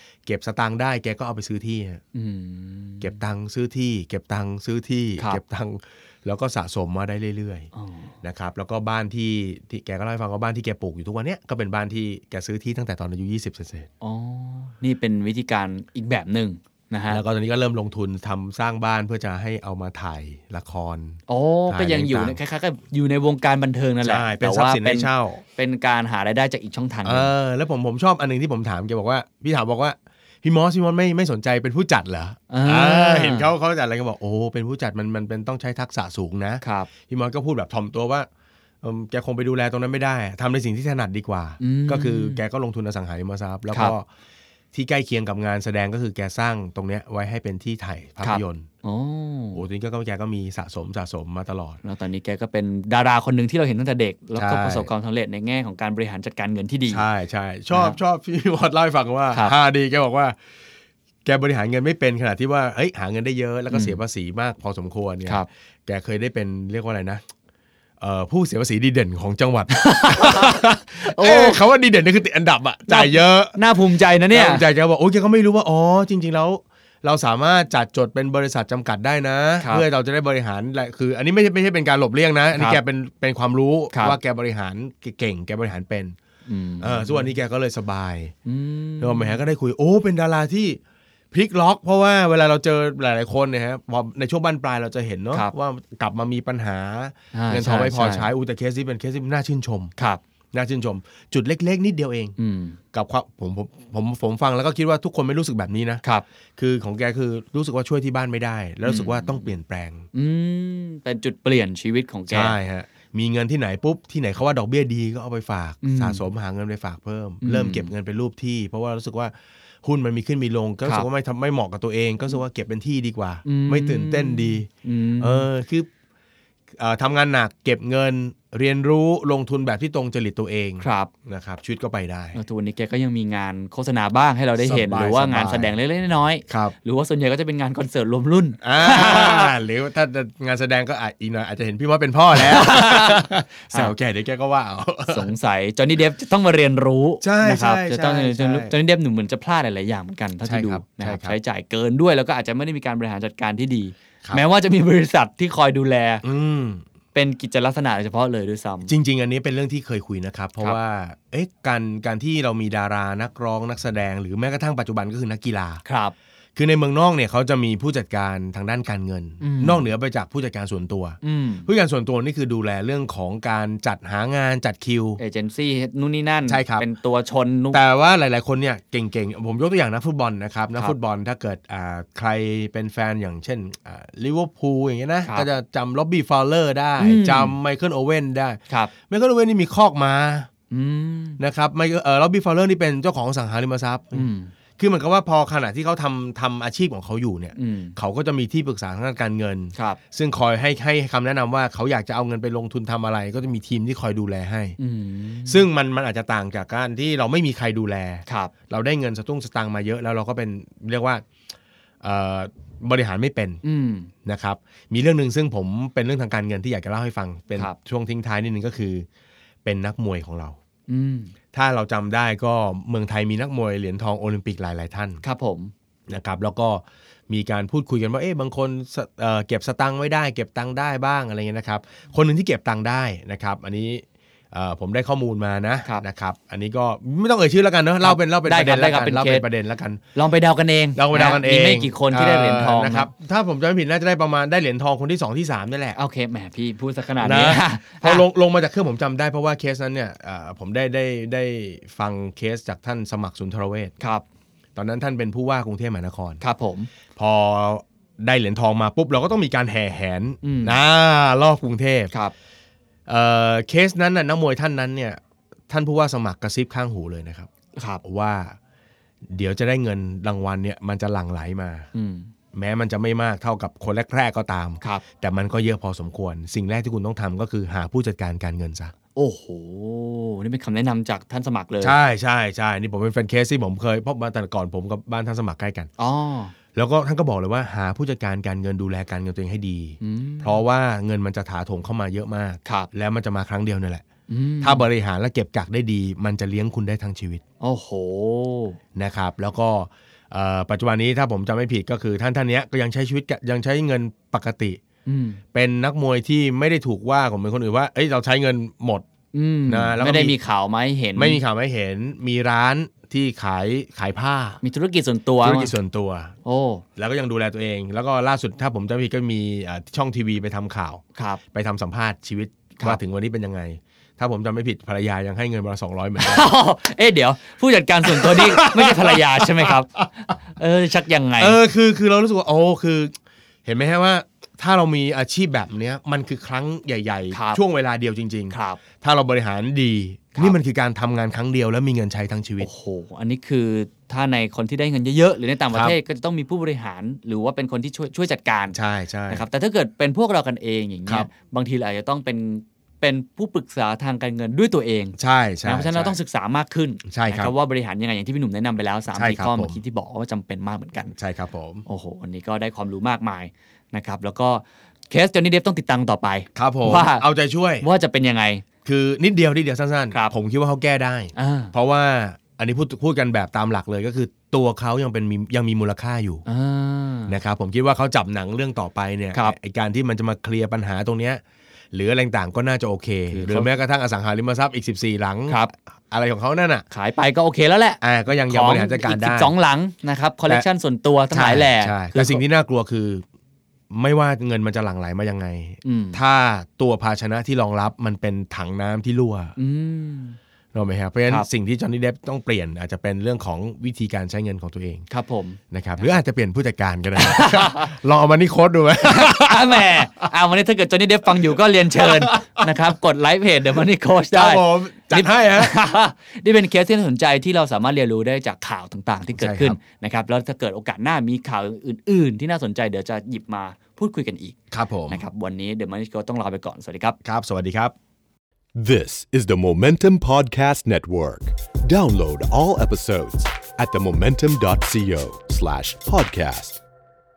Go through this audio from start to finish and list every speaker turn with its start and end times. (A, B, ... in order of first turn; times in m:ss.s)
0:00.3-0:02.0 A
0:02.1-0:03.2 B
0:03.0-0:07.7 A
0:07.8-0:08.1 B
0:08.2-0:13.9 A
0:14.0-0:17.2 B
0:17.1-0:22.4 A
0:21.3-0:27.3 B
0:24.0-0:25.4 A
0:27.0-0:38.3 A
0:32.5-0:33.5 B
0:36.6-0:36.9 B
0:38.8-0:44.1 A
0:41.6-0:42.4 B
0:44.7-0:48.7 A
0:48.2-0:49.6 B
0:49.5-0:51.8 A
0:51.8-0:57.0 B
0:54.4-0:54.9 A
0:56.9-1:00.4 A
0:57.7-0:58.0 B
1:01.2-1:07.2 A
1:03.7-1:04.0 B
1:08.0-1:13.6 A
1:09.7-1:11.6 B
1:12.9-1:14.6 B
1:14.3-1:26.2 A
1:22.6-1:22.8 B
1:23.9-1:24.2 B
1:26.5-1:27.3 B
1:26.8-1:28.3 A
1:28.5-1:29.4 B
1:29.0-1:30.8 A
1:31.3-1:39.9 A
1:37.3-1:38.3 B
1:40.5-1:42.4 A
1:42.4-1:42.8 B
1:42.9-1:46.0 A
1:46.6-1:50.1 A
1:48.8-1:49.5 B
1:50.1-1:52.6 B
1:52.3-2:04.7 A
1:55.8-1:56.3 B
1:57.4-1:57.9 B
2:03.4-2:05.5 B
2:05.2-2:05.9 A
2:06.8-2:12.4 A
2:10.8-2:11.1 B
2:12.4-2:19.6 B
2:14.6-2:15.7 A
2:16.5-2:16.8 A
2:18.6-2:25.3 A
2:22.4-2:23.9 B
2:25.1-2:36.2 B
2:27.2-2:28.7 A
2:30.4-2:31.4 A
2:36.2-2:36.8 A
2:37.1-2:38.9 B
2:38.9-2:45.8 A
2:45.8-2:46.1 B
2:46.6-2:55.2 A
2:49.4-2:49.8 B
2:51.2-2:51.7 B
2:55.2-2:57.8 B
2:56.5-2:56.8 A
2:57.7-3:10.5 A
3:07.0-3:07.6 B
3:10.7-3:11.4 B
3:11.4-3:24.8 A
3:14.1-3:14.5 B
3:17.6-3:18.0 B
3:24.8-3:25.6 B
3:25.5-3:31.2 A
3:28.3-3:28.5 B
3:32.0-3:33.6 A
3:33.6-3:34.1 B
3:34.2-3:39.1 A
3:39.6-3:40.6 A
3:40.9-3:41.3 B
3:41.5-3:45.2 A
3:45.2-3:45.7 B
3:46.1-4:00.0 A
3:58.0-3:59.5 B
4:00.2-4:03.1 B
4:01.0-4:06.0 A
4:06.0-4:08.2 B
4:07.2-4:14.0 A
4:14.0-4:14.2 B
4:14.8-4:16.4 A
4:16.4-4:16.9 B
4:17.2-4:22.1 A
4:20.4-4:20.8 B
4:23.1-4:27.5 A
4:27.8-4:28.0 B
4:28.0-4:28.6 A
4:29.3-4:31.9 A
4:31.9-4:32.3 B
4:32.5-4:38.9 A
4:39.2-4:42.0 B
4:41.8-4:45.9 A
4:46.0-4:46.5 B
4:46.7-4:54.0 A
4:50.0-4:50.6 B
4:52.6-4:52.9 B
4:54.3-4:54.9 B
4:54.6-4:57.4 A
4:57.6-4:58.8 B
4:59.0-5:04.8 A
5:05.1-5:05.4 B
5:05.5-5:09.0 A
5:09.3-5:11.4 B
5:09.7-5:10.4 A
5:11.2-5:14.6 A
5:14.6-5:15.7 B
5:15.4-5:16.4 A
5:16.4-5:16.8 B
5:17.0-5:21.0 A
5:21.2-5:21.4 B
5:21.5-5:26.5 A
5:26.2-5:31.6 B
5:28.0-5:30.1 A
5:31.4-5:33.1 A
5:33.6-5:42.7 A
5:37.3-5:37.6 B
5:38.5-5:38.8 B
5:42.6-5:48.8 B
5:45.7-5:46.0 A
5:48.7-5:49.4 A
5:49.3-6:01.2 B
5:55.2-5:56.2 A
5:57.1-5:57.5 A
5:59.1-5:59.8 A
6:01.2-6:01.8 A
6:01.9-6:07.3 B
6:06.6-6:07.9 A
6:07.8-6:08.6 B
6:08.8-6:16.4 A
6:11.4-6:11.7 B
6:16.5-6:17.4 B
6:17.3-6:26.8 A
6:23.3-6:23.7 B
6:26.9-6:32.4 B
6:28.0-6:29.5 A
6:31.3-6:33.2 A
6:33.9-6:39.6 A
6:35.8-6:36.2 B
6:39.6-6:40.4 B
6:40.7-6:45.1 A
6:45.1-6:45.6 B
6:45.7-6:50.3 A
6:47.2-6:47.9 B
6:49.0-7:04.6 B
6:52.0-6:52.7 A
6:54.3-6:55.7 A
6:59.4-6:59.8 A
7:04.7-7:05.2 A
7:05.1-7:07.2 B
7:07.2-7:07.9 A
7:08.8-7:16.8 C